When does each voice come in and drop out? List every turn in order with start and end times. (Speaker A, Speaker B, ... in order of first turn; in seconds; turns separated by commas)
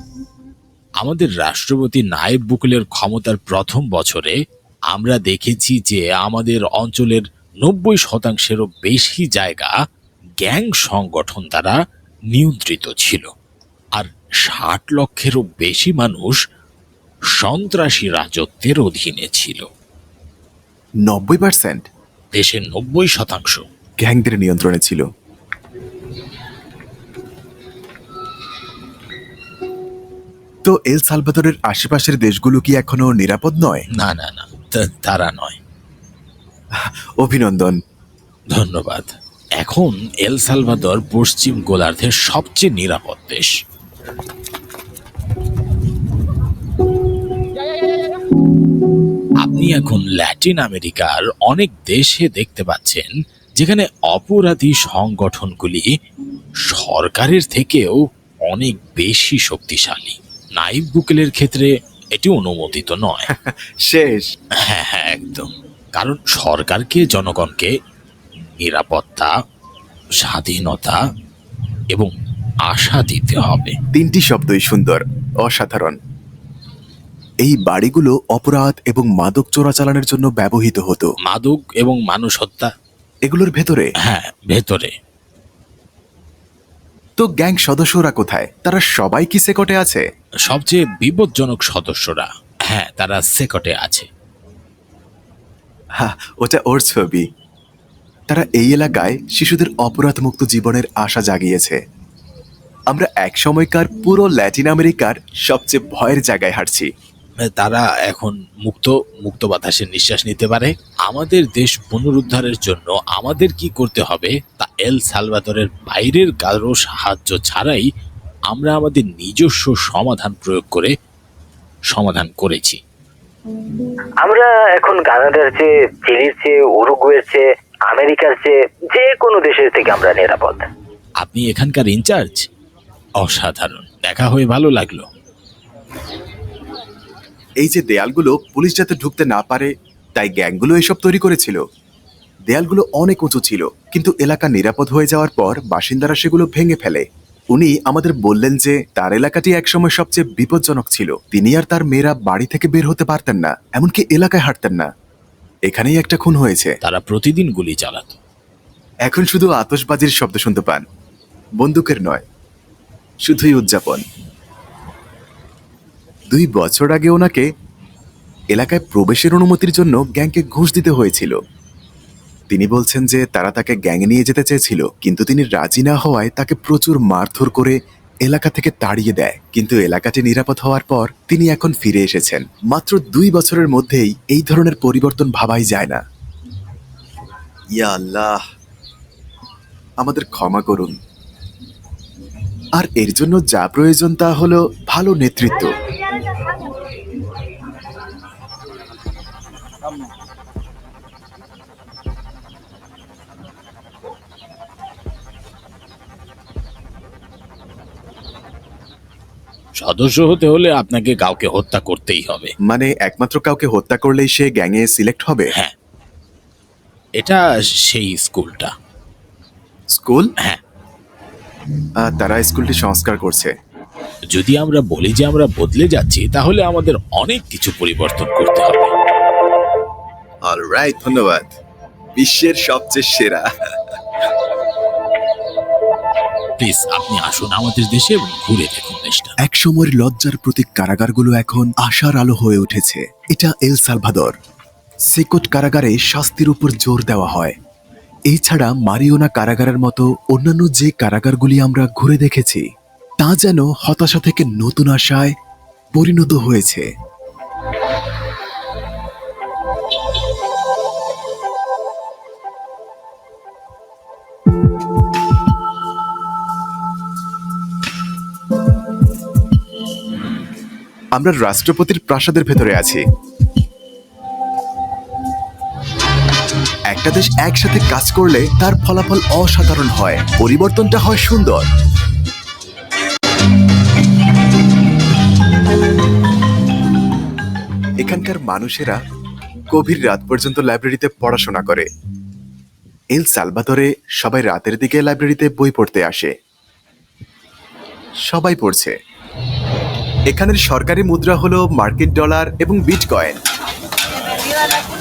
Speaker A: 1.0-4.4, Speaker A: 4.9-9.7, Speaker A: 10.4-11.8, Speaker A: 12.3-13.3, Speaker A: 13.9-16.4, Speaker A: 17.4-19.7, Speaker B: 21.1-21.8, Speaker A: 22.3-23.6, Speaker B: 24.0-25.0, Speaker B: 30.6-33.8, Speaker A: 34.0-35.6, Speaker B: 37.2-37.7, Speaker A: 38.5-43.5, Speaker A: 49.4-55.9, Speaker A: 56.7-63.3, Speaker B: 63.3-64.3, Speaker A: 64.6-67.7, Speaker A: 68.6-69.3, Speaker A: 70.2-71.0, Speaker A: 72.7-73.7, Speaker B: 73.9-75.9, Speaker B: 77.4-81.1, Speaker A: 81.2-82.7, Speaker B: 83.2-83.9, Speaker A: 84.0-84.9, Speaker B: 87.2-90.0, Speaker A: 90.5-94.1, Speaker B: 96.0-97.2, Speaker B: 98.3-101.8, Speaker B: 102.9-106.9, Speaker A: 107.4-117.8, Speaker A: 118.5-120.9, Speaker A: 121.9-122.8, Speaker C: 124.2-130.7, Speaker A: 131.2-132.4, Speaker A: 133.2-135.0, Speaker B: 137.6-141.6, Speaker B: 142.5-154.9, Speaker B: 155.7-156.7, Speaker A: 156.8-158.2, Speaker B: 159.1-160.8, Speaker B: 161.6-162.2, Speaker B: 163.2-164.0, Speaker B: 166.3-167.4, Speaker B: 168.5-171.3, Speaker B: 172.5-186.0, Speaker B: 187.8-188.4, Speaker B: 190.0-190.9, Speaker B: 192.8-195.7, Speaker A: 209.8-212.5, Speaker B: 212.7-215.5, Speaker A: 217.2-218.7, Speaker B: 219.9-220.3, Speaker B: 222.0-223.5, Speaker A: 224.3-228.9, Speaker B: 230.4-231.5, Speaker B: 232.2-233.4, Speaker A: 236.6-239.3, Speaker B: 239.4-244.3, Speaker B: 245.1-247.5, Speaker B: 248.3-252.6, Speaker B: 253.2-255.3, Speaker B: 255.9-256.9, Speaker B: 271.1-273.0, Speaker B: 276.9-281.7, Speaker B: 288.0-289.0, Speaker B: 289.7-291.9, Speaker B: 293.1-296.3, Speaker B: 298.3-298.9, Speaker B: 300.3-303.4